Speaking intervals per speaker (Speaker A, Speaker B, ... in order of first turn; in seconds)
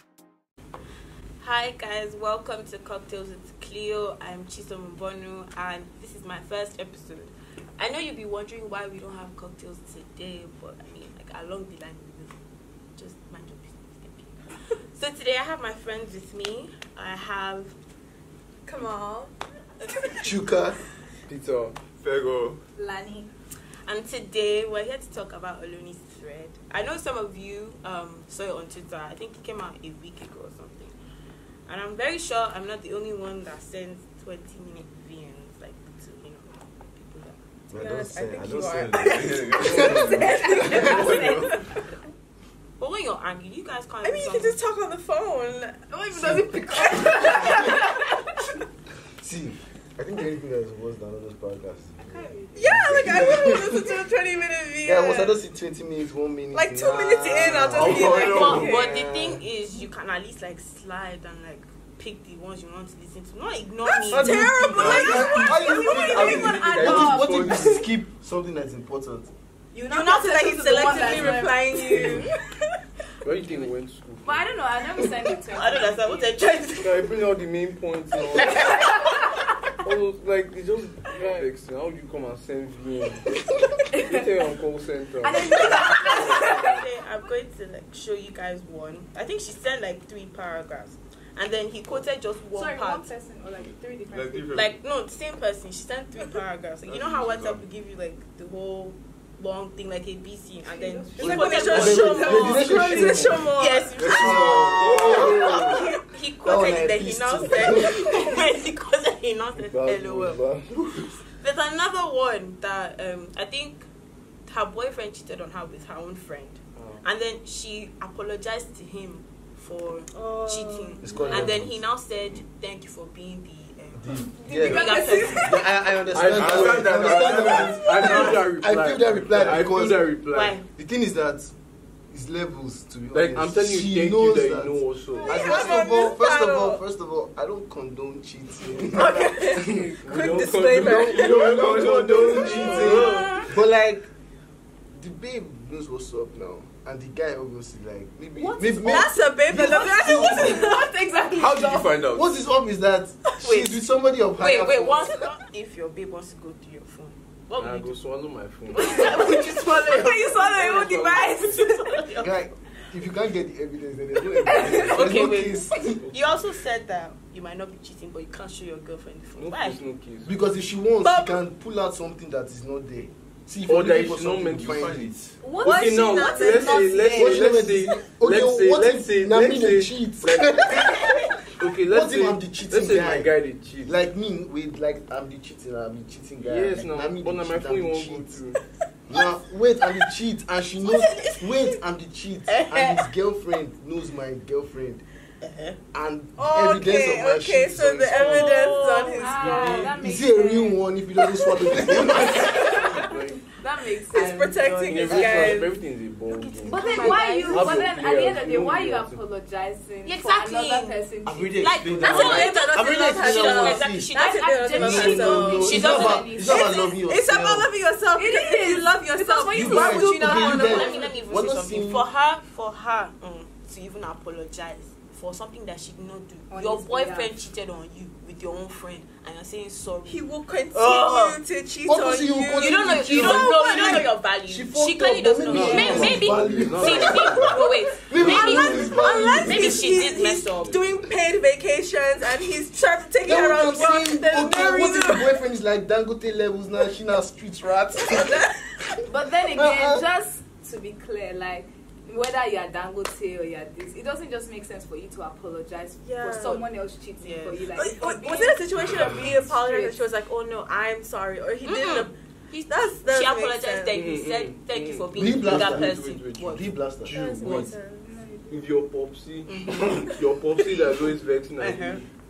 Speaker A: 1.4-12.4, 12.9-17.8, 23.9-30.9, 31.7-37.4, 40.7-41.4, 42.8-44.6, 57.9-64.4, 69.9-72.2, 75.5-77.0, 78.3-78.9, 85.8-93.1, 94.5-102.6, 103.5-110.5, 111.4-113.8, 114.5-125.8, 130.3-130.6, 142.8-143.4, 148.4-148.8, 153.4-153.8, 154.4-157.9, 158.7-162.5, 164.6-169.8, 190.8-191.8, 192.5-193.1, 195.4-195.8, 198.1-199.7, 204.1-205.6, 206.3-207.9, 210.0-211.0, 211.6-216.3, 220.2-231.4, 232.6-240.8, 257.2-257.7, 261.6-266.7, 269.5-270.1, 271.6-272.0
Speaker B: 18.6-19.3, 19.9-20.2, 37.7-39.3, 44.0-47.8, 52.5-55.4, 56.5-58.9, 63.9-67.2, 69.7-72.3, 101.2-104.2, 120.4-120.9, 124.6-125.4, 135.2-136.8, 138.9-143.4, 148.8-150.8, 171.0-171.4, 175.6-177.1, 196.4-199.9, 202.5-203.0, 204.1-205.8, 212.0-221.1, 230.1-234.1, 237.6-245.3, 248.0-248.6, 256.0-256.6, 257.7-262.1, 262.7-263.9, 267.0-268.0
Speaker C: 20.2-20.8, 37.7-41.1, 46.1-47.2, 49.2-53.9, 54.8-59.4, 64.1-69.3, 101.7-108.1, 110.7-111.1, 121.0-121.8, 123.9-130.2, 130.7-131.5, 132.1-139.6, 140.9-144.1, 144.9-150.6, 152.1-155.3, 162.2-166.0, 170.2-175.1, 177.1-181.3, 181.9-188.4, 189.1-195.0, 195.9-198.6, 199.9-202.7, 205.1-205.4, 211.2-214.1, 214.7-217.7, 219.5-222.1, 231.8-239.8, 243.2-248.4, 249.4-250.1, 265.1-267.7
Speaker D: 21.3-21.8, 39.6-40.3, 40.9-41.5, 71.9-72.3, 73.2-74.5, 76.8-78.8, 79.8-83.3, 84.0-86.6, 109.6-111.1, 116.8-117.0, 121.0-121.6, 126.1-130.6, 133.1-135.4, 139.6-142.2, 157.6-159.3, 166.0-166.3, 169.3-170.3, 173.7-174.9, 175.6-180.7, 181.6-184.0, 186.4-188.6, 199.4-199.9, 203.0-203.4, 204.8-209.2, 235.5-239.1, 240.6-241.0, 263.9-267.7, 268.5-272.0
Speaker E: 22.0-22.6, 38.8-40.5, 57.7-58.7, 64.7-67.7, 94.1-94.8, 96.8-97.7, 104.0-105.8, 126.2-128.4, 141.3-143.2, 150.2-150.7, 151.3-152.4, 174.5-175.5
Speaker F: 22.8-23.3, 39.3-41.5, 45.9-48.2, 52.0-52.9, 65.2-67.8, 70.7-71.5, 74.2-76.3, 78.5-79.2, 83.9-84.2, 85.2-86.8, 92.5-94.6, 100.6-103.3, 124.7-125.3, 135.2-135.9, 149.5-152.0, 158.8-162.0, 164.4-165.1, 175.4-177.5, 199.2-200.8, 201.8-204.6, 206.6-212.5, 214.1-216.8, 218.2-221.2, 226.5-227.4, 235.6-236.1, 249.1-259.9, 268.0-268.7